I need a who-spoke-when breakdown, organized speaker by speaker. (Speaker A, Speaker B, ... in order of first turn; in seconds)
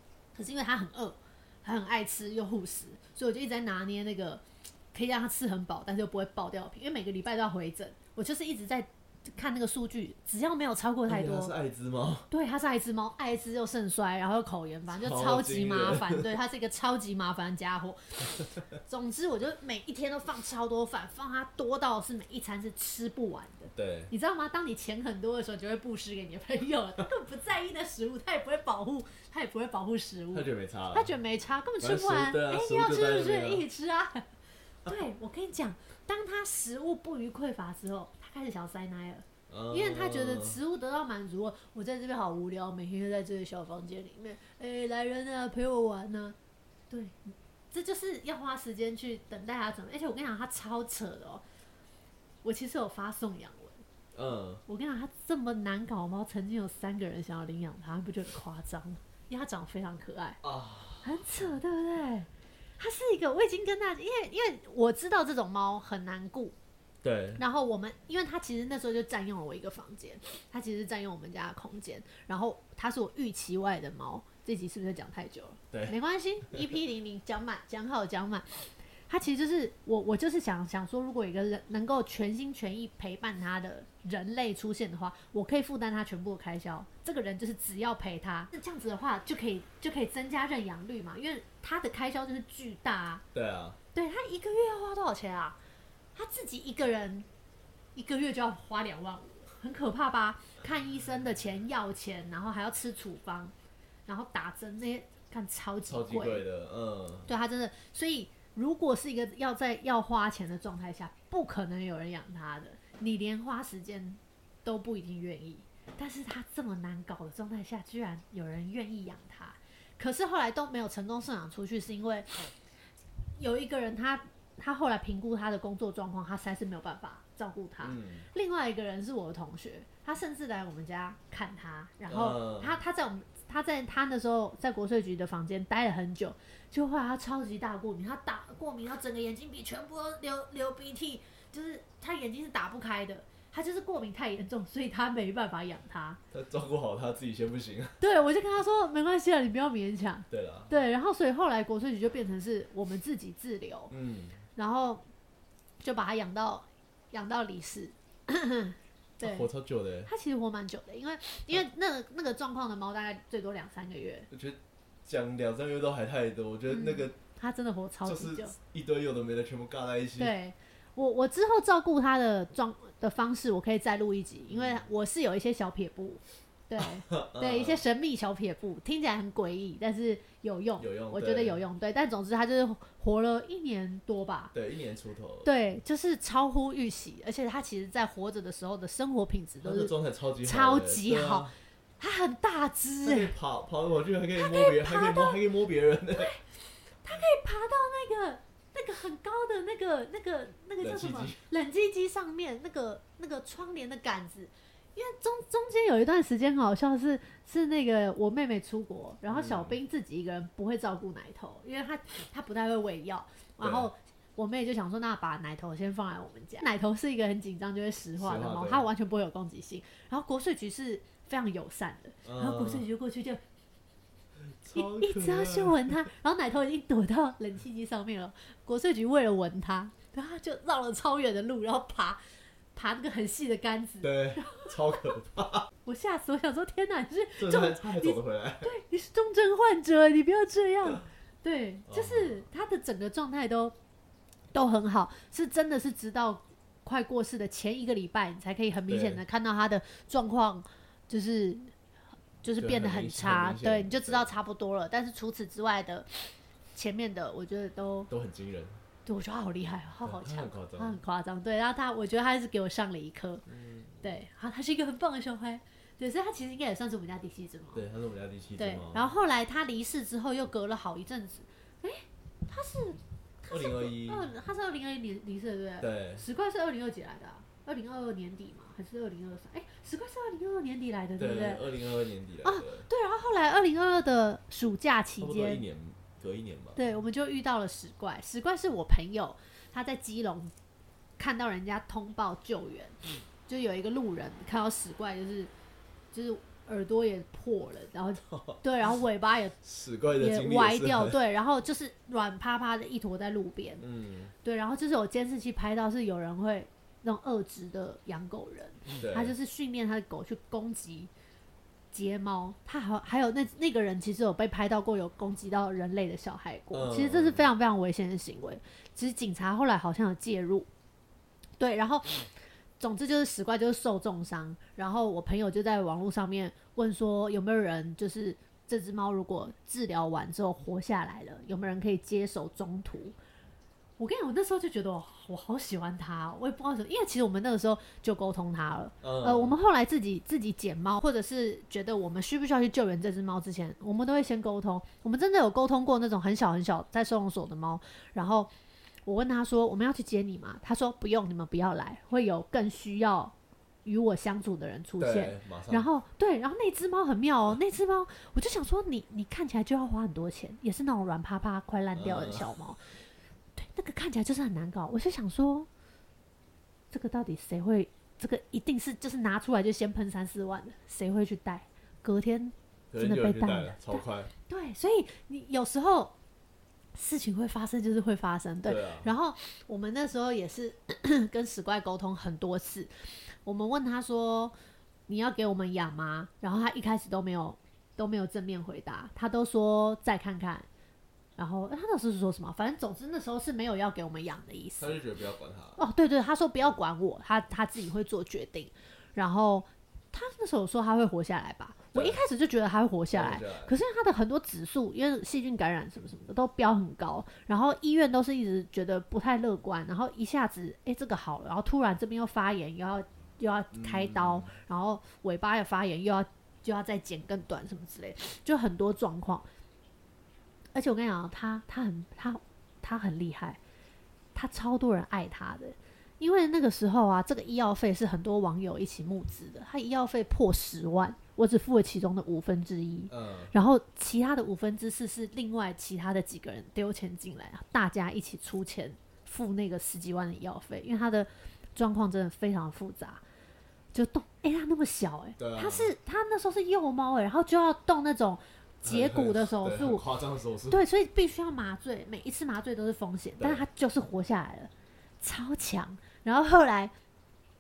Speaker A: 0.3-11.5, 12.3-34.3, 34.9-46.4, 46.9-51.4, 52.4-53.8, 54.6-60.4, 61.0-66.6, 67.4-93.2, 93.9-95.6, 96.1-97.3, 98.0-103.5, 104.1-106.4, 107.3-122.5, 123.4-146.2, 148.0-153.9, 154.6-155.0, 155.8-159.5, 160.1-164.3, 166.7-168.5, 170.2-184.5, 185.4-193.3, 194.4-195.4, 196.1-196.5, 197.0-223.4, 224.7-232.2, 232.8-235.1, 235.9-243.8, 244.5-251.7, 252.4-258.1, 259.1-263.4, 264.0-267.8, 268.6-281.6, 282.4-285.6, 286.8-290.5, 291.2-295.5, 296.1-299.6, 300.1-303.8, 304.4-311.1, 311.9-320.7, 321.6-333.1, 334.0-348.5, 349.1-353.3, 353.9-362.9, 363.6-365.7, 366.9-376.1, 376.9-384.6, 385.1-390.7, 391.4-395.0, 395.8-419.5, 420.8-423.6, 424.4-443.2, 443.9-450.0, 450.7-456.9
Speaker B: 11.1-12.3, 14.9-16.3, 23.8-24.1, 30.3-31.1, 31.8-33.6, 39.5-40.6, 54.1-54.6, 60.4-61.2, 67.0-67.4, 93.3-93.8, 105.9-107.3, 127.8-128.3, 132.1-132.8, 146.3-148.0, 150.3-150.7, 153.9-154.4, 159.2-160.1, 164.3-167.2, 168.0-170.3, 174.5-174.9, 176.8-177.8, 180.8-181.6, 184.5-185.5, 189.6-191.5, 193.0-196.3, 200.8-201.4, 209.3-209.8, 213.6-213.9, 218.2-218.9, 222.2-222.9, 224.5-226.0, 234.0-235.7, 237.4-238.7, 241.9-242.4, 248.9-249.2, 252.6-254.3, 258.1-258.8, 260.0-261.0, 263.5-264.1, 267.7-269.1, 273.5-274.3, 275.8-276.2, 281.2-282.9, 285.2-286.8, 298.3-298.6, 299.6-301.2, 303.8-304.3, 309.0-309.4, 316.7-317.5, 339.0-339.6, 355.0-355.9, 362.0-362.5, 372.9-374.3, 378.6-379.1, 394.8-395.8, 401.9-402.2, 403.1-403.7, 413.7-414.5, 433.1-433.5, 445.4-445.9, 448.8-450.8, 453.4-453.6